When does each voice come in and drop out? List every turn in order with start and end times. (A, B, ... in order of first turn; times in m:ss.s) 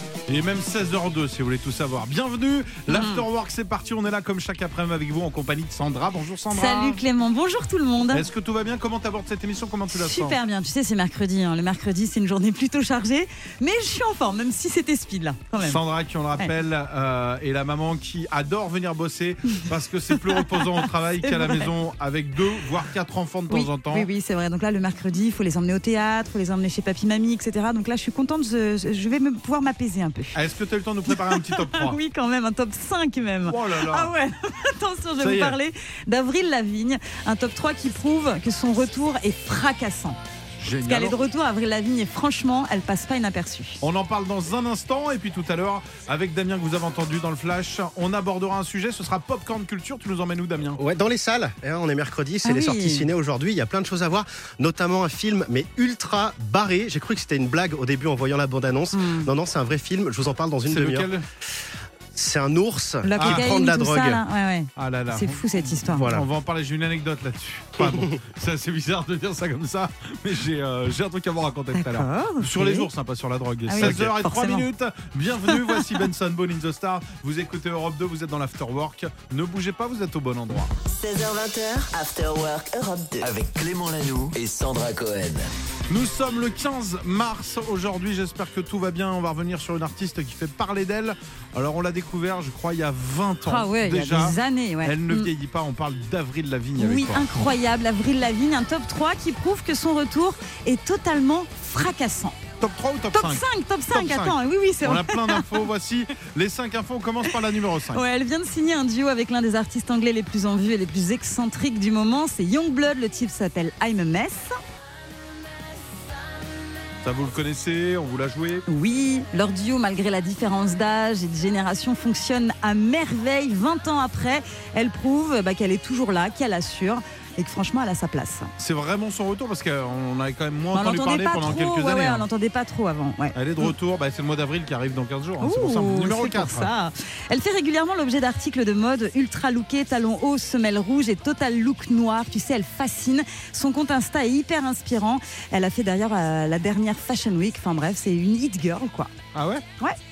0:00.3-0:07.0 A
0:02.9-0:03.2 B
0:06.5-0:08.2 B
0:08.1-0:10.4 A
0:09.9-0:15.8 B
0:15.6-0:24.1 A
0:20.1-0:21.7 B
0:23.5-0:30.4 B
0:30.3-0:32.0 A
0:31.1-0:40.2 B
0:33.5-0:34.1 A
0:35.2-0:35.6 A
0:40.6-0:41.2 A
0:40.8-0:43.8 B
0:43.8-0:50.8 A
0:50.8-1:01.1 C
0:52.4-0:53.1 B
0:58.9-0:59.3 B
1:00.7-1:01.2 A
1:02.1-1:04.2 C
1:03.0-1:06.0 B
1:03.2-1:03.4 A
1:04.8-1:20.7 A
1:05.9-1:06.2 C
1:07.8-1:08.1 C
1:11.7-1:12.9 B
1:13.7-1:14.6 B
1:15.4-1:16.0 B
1:20.9-1:23.3 D
1:23.2-1:25.5 E
1:25.9-1:37.2 A
1:33.4-1:35.3 B
1:36.8-1:42.4 B
1:42.6-1:48.0 A
1:43.1-1:45.6 B
1:47.9-1:54.6 B
1:57.0-1:58.6 A
1:58.7-2:08.5 B
2:08.6-2:12.2 A
2:10.7-2:13.7 B
2:13.3-2:16.7 A
2:15.4-2:29.1 B
2:29.3-2:29.6 A